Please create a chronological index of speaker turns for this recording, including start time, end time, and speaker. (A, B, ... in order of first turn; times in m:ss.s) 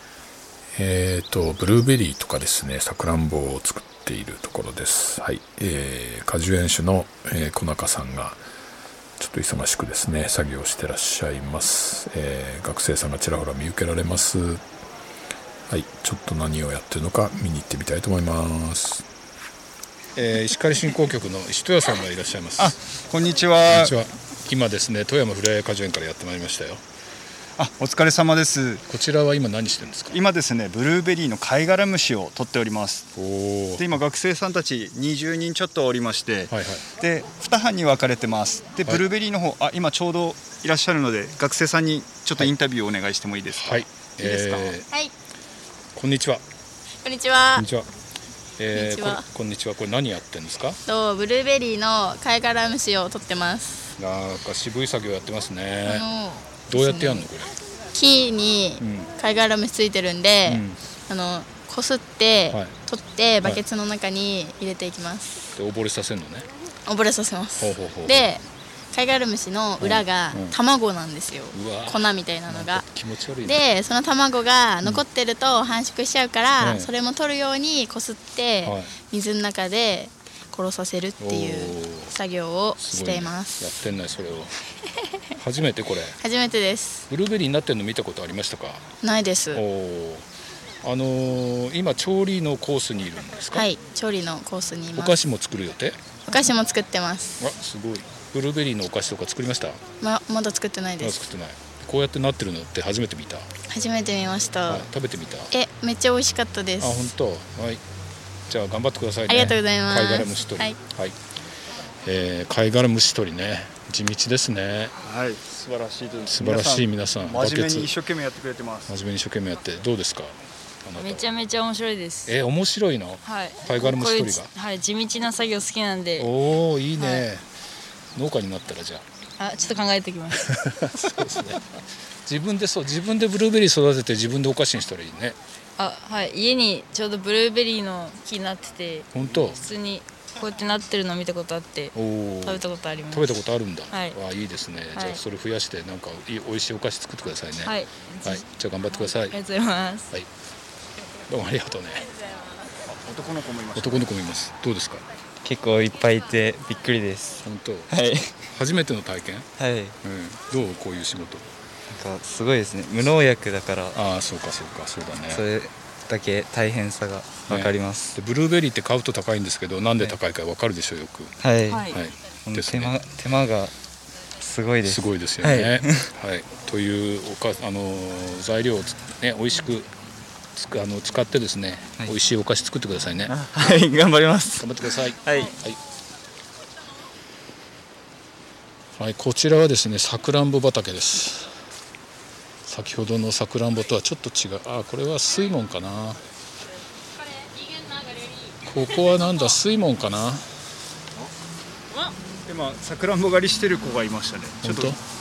0:00.7-0:08.4 A
0:09.2-0:14.6 A
0:15.7-0:19.0 A
0:20.1-0:22.8 A
0:22.6-0:23.9 B
0:23.7-0:26.8 A
0:27.6-0:28.8 B
0:28.9-0:30.2 A
0:30.1-0:33.1 B
0:33.2-0:33.9 A
0:33.8-0:44.7 B
0:36.5-0:36.8 A
0:43.5-0:44.8 A
0:45.9-0:46.4 A
0:47.0-0:47.6 C
0:47.6-0:47.9 A
0:48.6-0:50.8 A
0:48.7-0:49.2 C
0:50.9-0:53.9 C
0:54.0-0:56.1 A
0:55.8-0:57.2 C
0:56.7-0:57.5 A
0:57.9-1:05.5 C
0:58.8-0:59.1 A
1:00.4-1:00.8 A
1:05.5-1:06.5 A
1:06.8-1:12.8 C
1:07.6-1:08.3 A
1:09.8-1:10.6 A
1:11.5-1:13.6 A
1:13.4-1:23.7 C
1:16.6-1:16.9 A
1:18.6-1:18.9 A
1:21.2-1:22.2 A
1:22.8-1:24.5 A
1:25.4-1:26.2 A
1:26.2-1:27.1 C
1:27.1-1:28.9 A
1:29.0-1:29.6 C
1:29.5-1:30.3 A
1:30.8-1:33.7 A
1:33.5-1:35.2 C
1:35.0-1:36.0 A
1:36.3-1:37.4 C
1:37.4-1:39.8 A
1:40.0-1:41.3 C
1:41.0-1:43.5 A
1:43.7-1:44.9 C
1:44.6-1:45.5 A
1:45.5-1:47.0 C
1:46.8-1:47.8 A
1:48.5-1:51.2 A
1:49.3-1:50.8 C
1:52.0-1:54.9 A
1:55.0-1:58.9 B
1:56.2-1:58.0 A
1:58.9-2:01.3 A
2:01.0-2:02.4 D
2:02.2-2:04.5 A
2:03.2-2:06.3 D
2:06.2-2:07.5 A
2:07.0-2:07.2 D
2:08.1-2:09.0 A
2:09.4-2:10.6 D
2:10.3-2:15.4 A
2:15.8-2:24.2 D
2:19.1-2:19.6 A
2:21.9-2:29.4 A
2:24.9-2:25.2 D
2:27.6-2:30.1 D
2:31.3-2:32.1 A
2:32.9-2:34.1 B
2:33.7-2:35.0 A
2:35.4-2:38.4 E
2:37.4-2:39.5 A
2:39.6-2:39.9 E
2:40.0-2:41.4 A
2:41.9-2:44.0 E
2:43.9-2:45.4 A
2:45.3-2:48.2 E
2:47.5-2:53.0 A
2:51.4-2:51.9 E
2:51.7-2:52.0 D
2:52.4-2:53.7 E
2:54.4-2:56.1 E
2:54.8-2:59.9 A
3:00.5-3:03.4 A
3:03.3-3:05.5 E
3:04.6-3:05.8 A
3:09.0-3:11.6 A
3:12.6-3:16.2 A
3:18.6-3:20.5 A
3:22.5-3:25.0 B
3:24.6-3:25.0 A